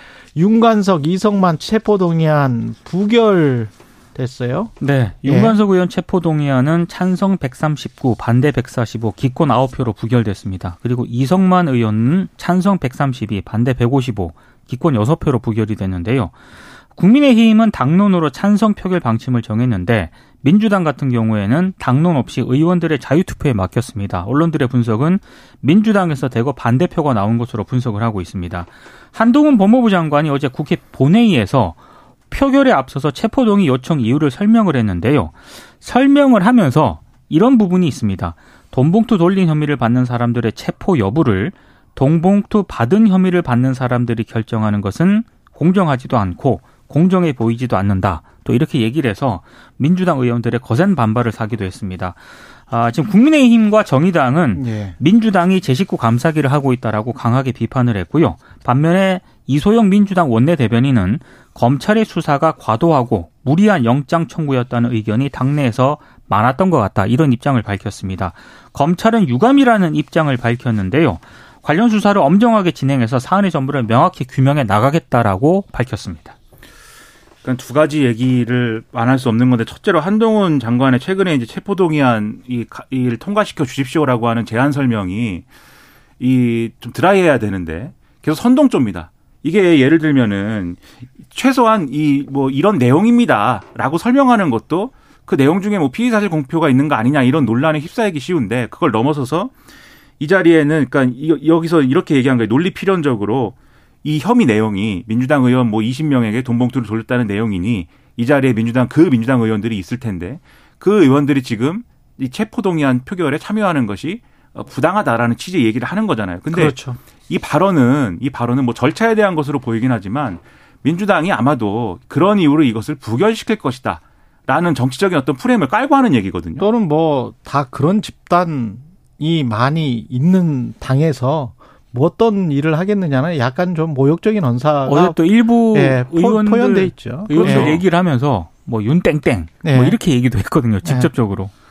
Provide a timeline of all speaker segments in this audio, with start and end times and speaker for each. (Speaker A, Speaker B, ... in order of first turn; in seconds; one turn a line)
Speaker A: 0.3-4.7
Speaker B: 4.8-16.3
Speaker A: 5.2-5.6
Speaker B: 16.9-31.8
Speaker B: 32.3-76.3
Speaker A: 54.5-55.0
Speaker C: 77.4-85.5
Speaker C: 86.2-99.5
Speaker C: 100.2-126.7
Speaker A: 116.5-117.0
Speaker A: 126.6-137.8
Speaker B: 134.8-141.5
Speaker C: 137.3-137.8
Speaker A: 139.6-140.0
Speaker A: 140.8-141.1